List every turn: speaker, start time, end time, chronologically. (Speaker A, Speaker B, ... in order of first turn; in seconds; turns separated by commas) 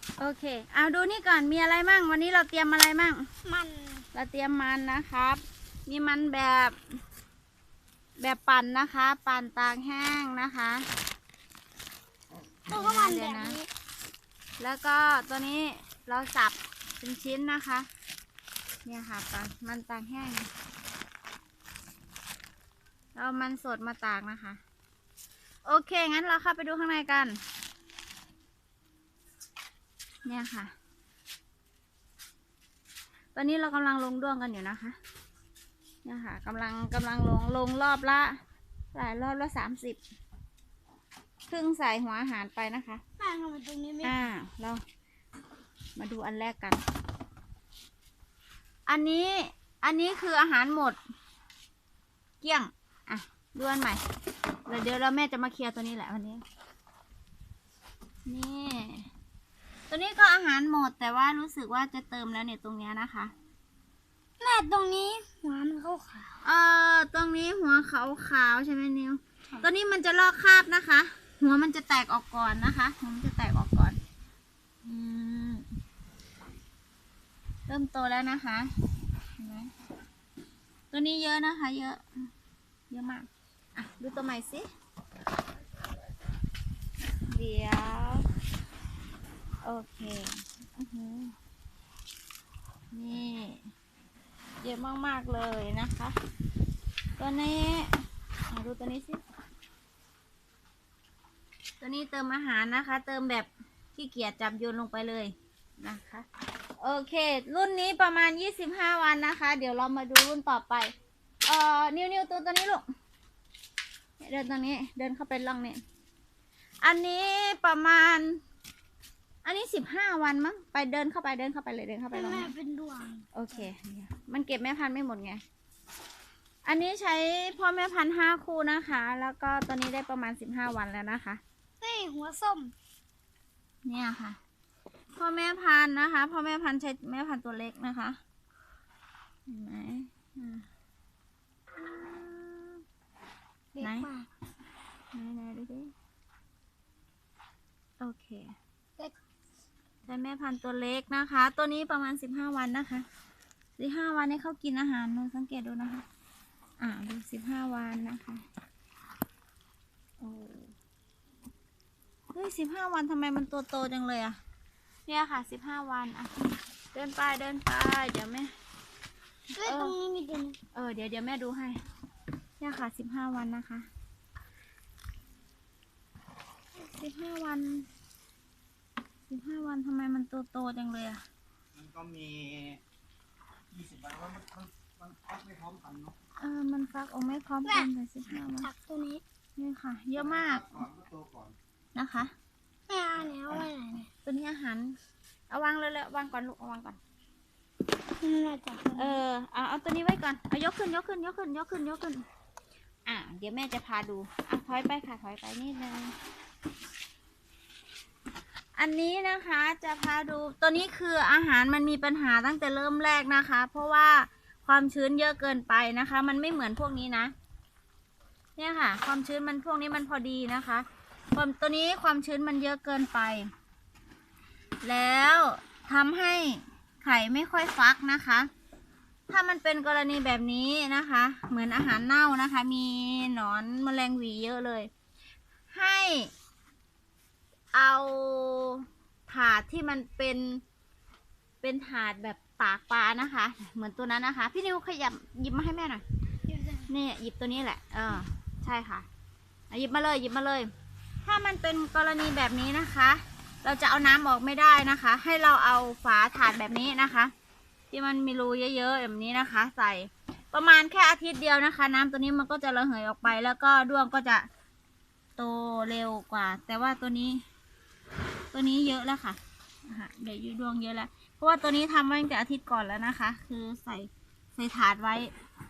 Speaker A: 0.2-3.3, Speaker B: 3.4-4.0, Speaker A: 4.1-6.8, Speaker A: 8.2-10.9, Speaker B: 12.7-13.7, Speaker A: 12.7-13.6, Speaker A: 14.6-17.9, Speaker A: 18.8-20.5, Speaker A: 23.1-24.6, Speaker A: 25.6-27.4, Speaker A: 30.2-30.7, Speaker A: 33.3-35.0, Speaker A: 36.0-38.4, Speaker A: 38.9-40.0, Speaker A: 41.5-43.0, Speaker B: 43.2-44.2, Speaker A: 44.0-44.8, Speaker A: 46.0-46.8, Speaker A: 48.9-51.0, Speaker A: 52.4-54.0, Speaker A: 54.6-56.4, Speaker A: 58.2-59.1, Speaker A: 59.9-63.3, Speaker B: 64.4-66.3, Speaker A: 66.4-74.0, Speaker A: 74.8-75.7, Speaker A: 77.7-78.7, Speaker A: 79.4-79.7, Speaker A: 80.9-82.0, Speaker A: 82.9-84.7, Speaker A: 87.3-88.3, Speaker A: 89.6-91.3, Speaker A: 92.9-93.6, Speaker A: 94.6-96.2, Speaker A: 97.2-99.2, Speaker A: 101.8-106.2, Speaker A: 106.8-110.9, Speaker A: 111.5-112.8, Speaker A: 114.2-115.8, Speaker A: 116.8-118.4, Speaker A: 119.4-122.5, Speaker B: 122.1-123.3, Speaker A: 123.3-125.4, Speaker A: 126.6-131.4, Speaker B: 131.8-132.7, Speaker A: 133.8-134.4, Speaker A: 135.2-138.2, Speaker A: 139.5-140.7, Speaker A: 141.8-142.8, Speaker B: 143.7-144.3, Speaker A: 143.8-144.1, Speaker A: 145.1-145.9, Speaker A: 148.0-148.6, Speaker A: 150.0-153.1, Speaker A: 153.8-156.0, Speaker A: 156.8-158.4, Speaker A: 160.2-160.7, Speaker A: 162.3-164.4, Speaker A: 165.1-166.3, Speaker A: 166.9-168.5, Speaker B: 169.5-170.6, Speaker A: 169.6-169.9, Speaker A: 170.7-171.8, Speaker A: 172.6-173.9, Speaker A: 176.8-177.9, Speaker A: 179.3-181.2, Speaker C: 181.8-182.8, Speaker C: 183.8-186.1, Speaker A: 186.3-188.7, Speaker B: 188.6-189.2, Speaker A: 189.6-190.9, Speaker C: 191.1-191.5, Speaker A: 191.9-192.3, Speaker B: 192.9-194.1, Speaker A: 194.2-195.0, Speaker A: 195.5-197.0, Speaker B: 198.2-199.2, Speaker A: 199.0-202.2, Speaker A: 203.1-206.1, Speaker A: 208.8-217.3, Speaker A: 218.6-223.5, Speaker A: 224.8-228.5, Speaker A: 229.3-234.9, Speaker A: 235.7-236.3, Speaker A: 237.7-240.6, Speaker A: 241.6-246.0, Speaker B: 246.4-246.9, Speaker A: 246.9-249.1, Speaker A: 249.7-250.7, Speaker A: 251.2-257.3, Speaker A: 257.9-264.5, Speaker A: 265.4-267.4, Speaker A: 268.5-275.3